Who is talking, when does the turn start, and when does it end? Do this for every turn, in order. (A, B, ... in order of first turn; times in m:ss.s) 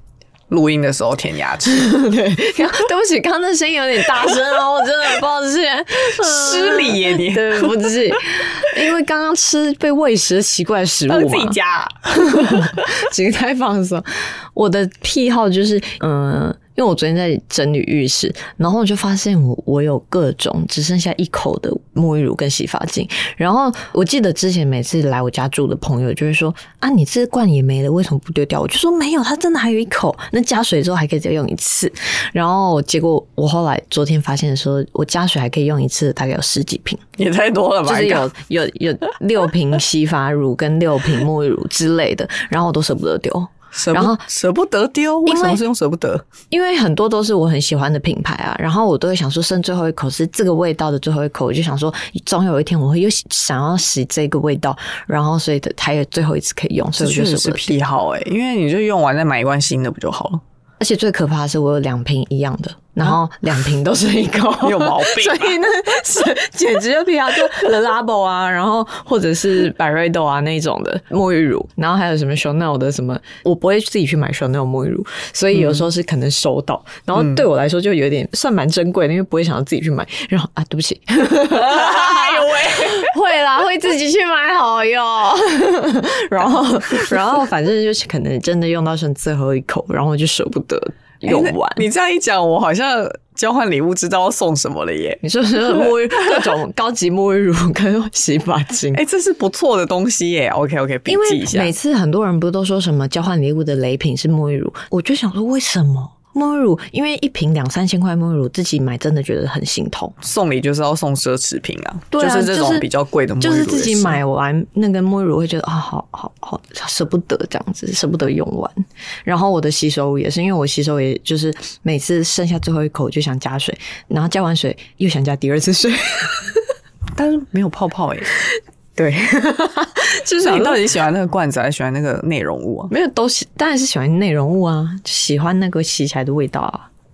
0:00.5-0:01.9 A
0:01.7-0:11.6 B
0:06.0-0:07.9 A
0:11.1-0:12.8 A
0:12.2-0:37.0 B
0:37.2-0:38.3 A
0:37.9-0:44.2 B
0:43.7-0:46.2 A
0:45.3-0:45.6 B
0:46.5-0:57.8 B
0:57.0-1:00.4 A
1:00.8-1:31.9 B
1:04.6-1:05.6 A
1:15.5-1:15.9 A
1:17.2-1:17.4 A
1:21.5-1:23.1 A
1:31.2-1:36.5 A
1:35.2-1:39.0 B
1:38.9-1:41.7 A
1:41.1-1:50.2 B
1:50.2-1:54.2 A
1:52.1-1:52.9 B
1:53.4-2:06.7 B
2:07.2-2:08.3 A
2:09.0-2:10.8 B
2:10.4-2:12.9 A
2:12.9-2:16.9 B